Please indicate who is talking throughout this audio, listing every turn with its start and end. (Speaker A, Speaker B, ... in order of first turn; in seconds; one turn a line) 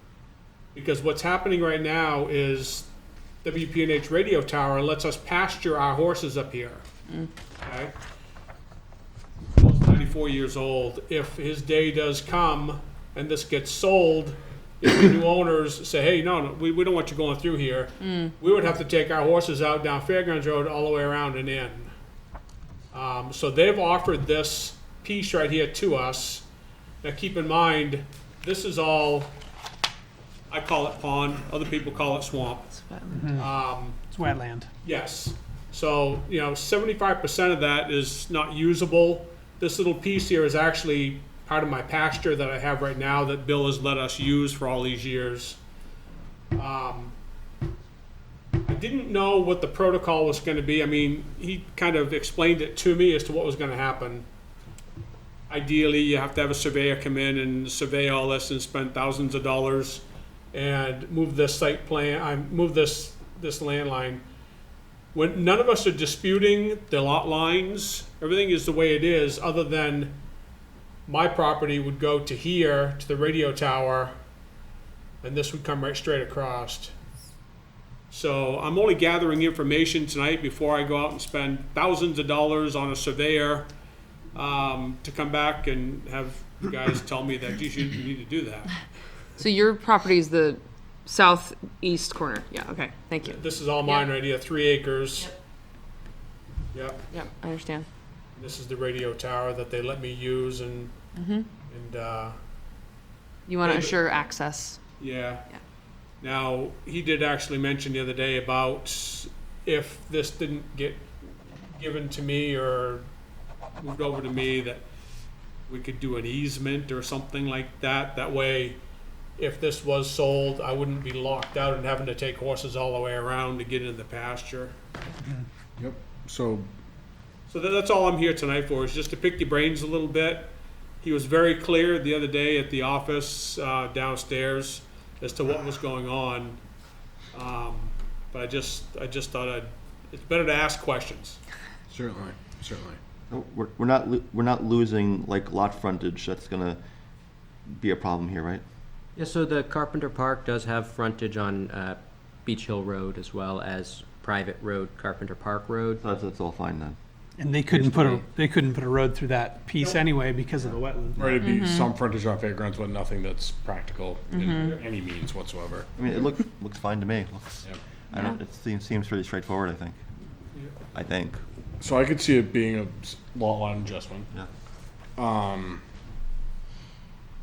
Speaker A: 0.7-2.9
Speaker A: 3.4-6.8
Speaker A: 7.6-7.9
Speaker A: 9.5-21.9
Speaker B: 18.0-18.3
Speaker A: 22.9-26.4
Speaker A: 27.0-29.3
Speaker A: 30.5-32.8
Speaker B: 32.9-33.3
Speaker C: 33.1-33.5
Speaker A: 33.4-34.1
Speaker C: 34.1-34.7
Speaker A: 34.8-45.6
Speaker A: 46.5-47.1
Speaker A: 48.7-54.3
Speaker A: 55.5-64.2
Speaker A: 65.1-70.2
Speaker A: 71.1-74.1
Speaker A: 75.2-76.9
Speaker A: 78.1-83.7
Speaker A: 84.3-88.8
Speaker B: 89.4-94.1
Speaker A: 93.2-95.3
Speaker A: 96.7-97.1
Speaker B: 97.1-97.9
Speaker A: 98.4-100.9
Speaker B: 101.2-101.5
Speaker A: 101.7-102.4
Speaker B: 103.5-104.8
Speaker A: 103.6-104.0
Speaker A: 105.0-105.5
Speaker A: 106.2-113.1
Speaker A: 113.8-114.8
Speaker A: 115.7-118.8
Speaker A: 119.4-124.7
Speaker D: 125.8-126.7
Speaker A: 127.5-136.6
Speaker A: 137.3-141.4
Speaker D: 141.9-143.0
Speaker E: 143.3-146.8
Speaker E: 147.7-148.6
Speaker F: 149.2-156.0
Speaker E: 156.0-157.0
Speaker C: 157.4-161.3
Speaker F: 157.7-158.2
Speaker D: 161.2-165.9
Speaker B: 161.4-161.9
Speaker A: 164.5-164.8
Speaker E: 166.0-170.0
Speaker E: 170.9-171.4
Speaker D: 171.8-174.3
Speaker D: 175.2-175.8